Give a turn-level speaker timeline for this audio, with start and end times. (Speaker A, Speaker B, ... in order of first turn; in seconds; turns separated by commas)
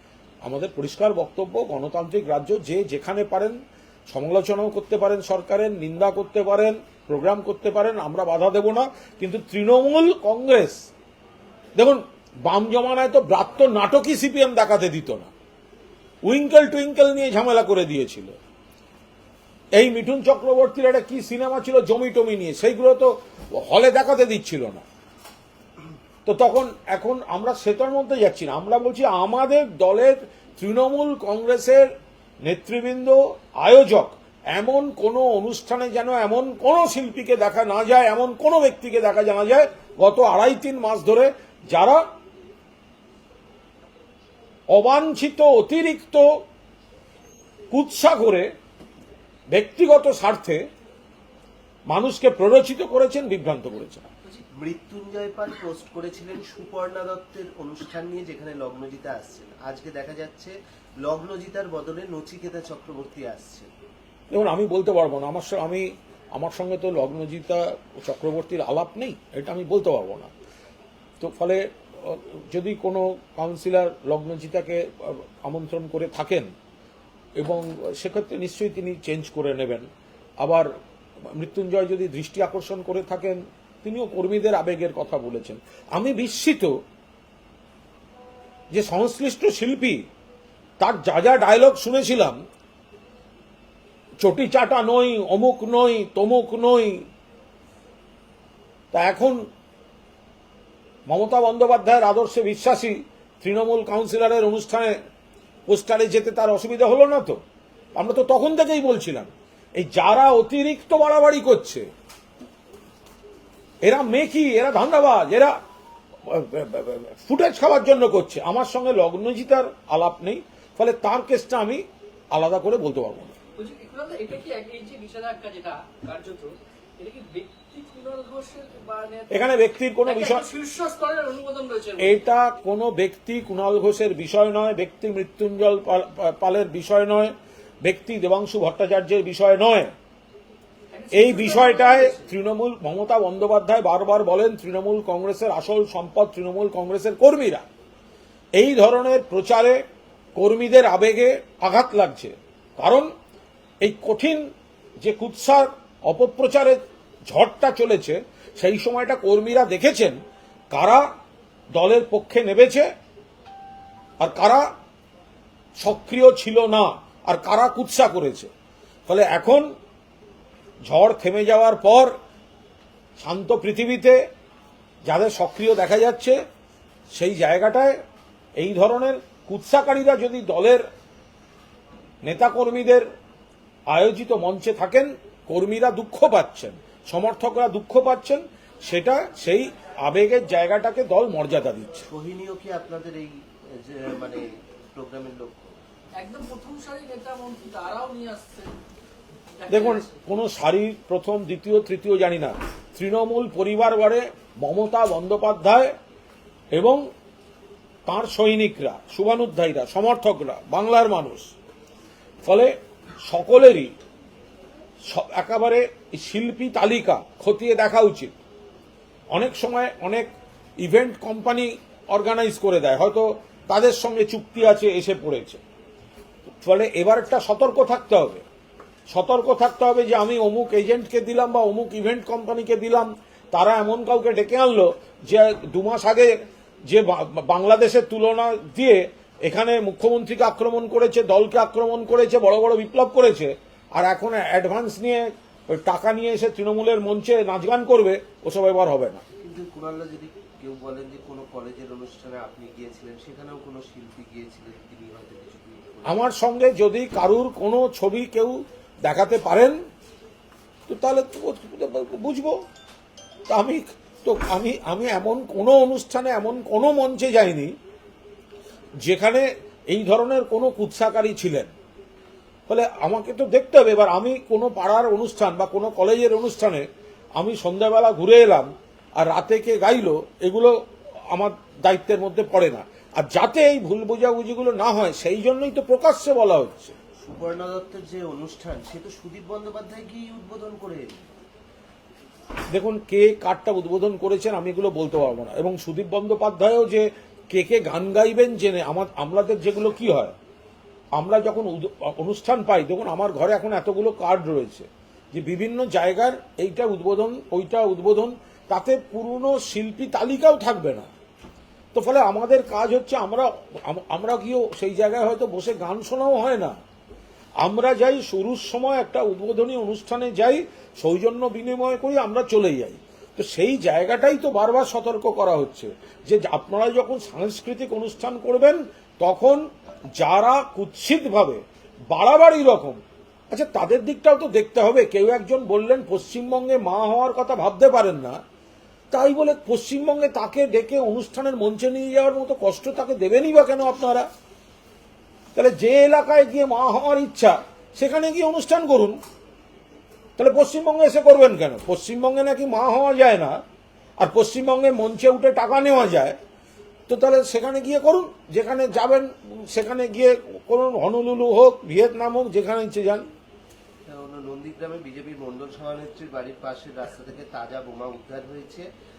Speaker A: 0.4-3.6, Speaker A: 4.1-10.9, Speaker A: 11.8-15.3, Speaker A: 16.2-18.4, Speaker A: 19.8-24.8, Speaker A: 26.2-31.9, Speaker A: 32.4-42.0, Speaker A: 44.7-46.4, Speaker A: 47.7-48.5, Speaker A: 49.5-50.6, Speaker A: 51.9-54.1, Speaker B: 54.3-63.7, Speaker A: 64.3-70.3, Speaker A: 71.2-76.5, Speaker A: 77.4-79.9, Speaker A: 80.4-80.7, Speaker A: 81.3-86.8, Speaker A: 88.7-90.1, Speaker A: 90.8-92.4, Speaker A: 94.2-97.1, Speaker A: 98.9-99.5, Speaker A: 101.1-105.0, Speaker A: 105.7-107.4, Speaker A: 108.0-111.9, Speaker A: 113.8-115.6, Speaker A: 116.2-123.3, Speaker C: 123.6-132.2, Speaker A: 129.3-130.5, Speaker A: 132.0-139.9, Speaker C: 140.9-142.2, Speaker A: 141.1-147.7, Speaker A: 148.6-149.8, Speaker A: 150.4-153.1, Speaker A: 153.8-154.5, Speaker A: 155.0-160.2, Speaker A: 160.7-161.1, Speaker A: 161.7-162.9, Speaker A: 164.2-164.7, Speaker A: 165.8-168.5, Speaker A: 169.1-169.7, Speaker A: 170.8-172.2, Speaker A: 173.2-174.2, Speaker A: 175.1-176.4, Speaker A: 177.1-178.0, Speaker A: 178.6-180.9, Speaker A: 182.2-183.1, Speaker A: 183.9-192.1, Speaker B: 192.1-195.8, Speaker C: 196.2-198.8, Speaker C: 199.6-200.2, Speaker A: 199.7-206.0, Speaker A: 206.7-207.1, Speaker A: 208.1-211.5, Speaker A: 212.4-213.9, Speaker A: 215.1-218.4, Speaker A: 219.3-220.3, Speaker A: 220.8-225.6, Speaker A: 226.4-228.4, Speaker A: 229.1-249.2, Speaker B: 249.4-256.3, Speaker A: 256.1-259.8, Speaker A: 260.9-262.6, Speaker A: 263.5-267.7, Speaker A: 269.0-271.7, Speaker A: 272.7-276.9, Speaker A: 277.4-280.8, Speaker A: 281.3-287.0, Speaker B: 287.2-291.3, Speaker A: 292.7-300.4, Speaker A: 301.2-311.1, Speaker A: 311.9-316.8, Speaker A: 317.6-329.6, Speaker A: 330.2-333.0, Speaker A: 333.5-338.4, Speaker A: 339.1-344.3, Speaker A: 345.6-349.2, Speaker A: 350.4-353.6, Speaker A: 354.2-356.4, Speaker A: 357.1-363.2, Speaker B: 364.1-368.9